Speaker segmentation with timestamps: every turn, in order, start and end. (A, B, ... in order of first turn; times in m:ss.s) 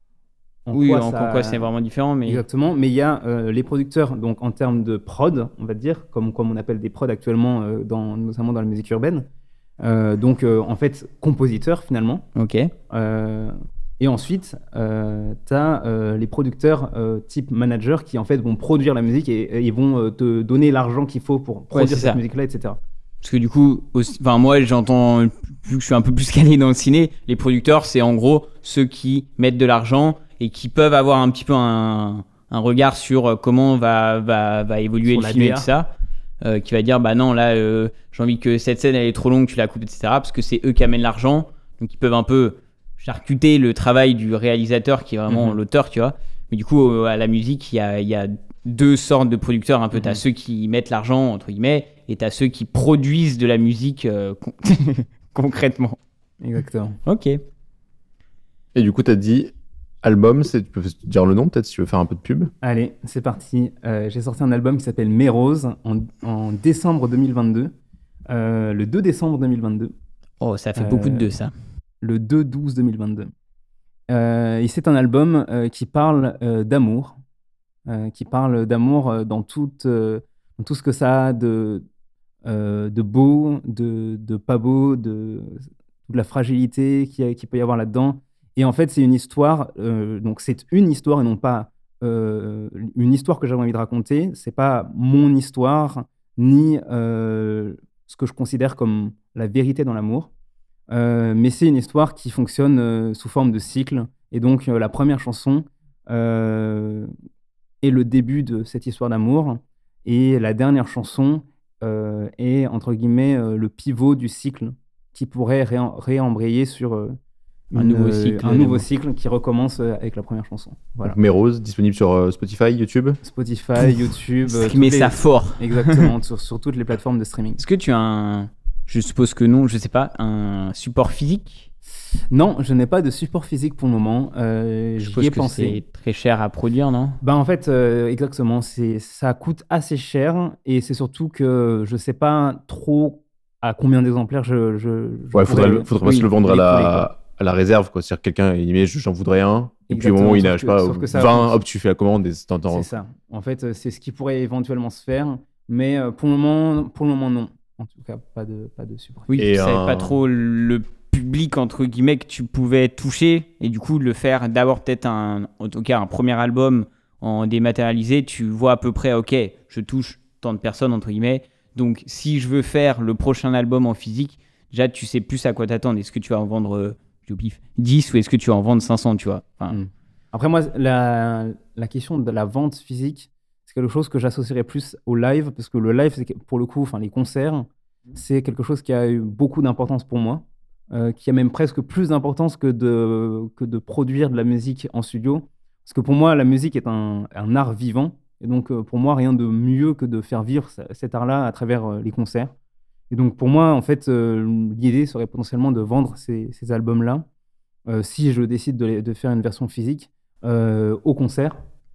0:00.6-0:01.6 A
0:00.7-0:02.4 B
0:02.2-0:09.2 A
0:09.8-0:12.2 A
0:12.4-0:12.7 B
0:12.9-0:22.8 A
0:21.7-0:22.2 B
0:23.2-0:56.0 B
0:35.0-0:35.7 A
0:45.3-0:45.6 A
0:49.9-0:50.2 A
0:56.4-0:57.0 A
0:57.0-0:57.4 B
0:58.7-0:59.5 C
1:00.0-1:02.5 C
1:02.6-1:07.7 A
1:08.3-1:09.9 A
1:10.4-1:11.5 B
1:10.8-1:11.3 A
1:12.0-1:13.3 A
1:14.1-1:17.2 A
1:17.9-1:21.8 A
1:22.4-1:40.3 A
1:40.9-1:47.1 A
1:47.8-1:57.2 A
1:57.7-2:01.2 A
1:57.7-1:58.9 B
2:01.0-2:03.2 C
2:03.2-2:07.6 A
2:04.5-2:06.1 B
2:07.6-2:11.7 B
2:12.3-2:15.8 A
2:15.0-2:17.2 B
2:17.2-2:25.9 A
2:25.3-2:32.9 C
2:26.0-2:27.0 B
2:29.9-2:31.6 A
2:32.7-2:39.3 A
2:39.3-2:59.8 B
2:39.3-2:40.1 C
2:59.7-3:22.5 A
3:23.1-3:27.2 A
3:27.9-3:31.6 A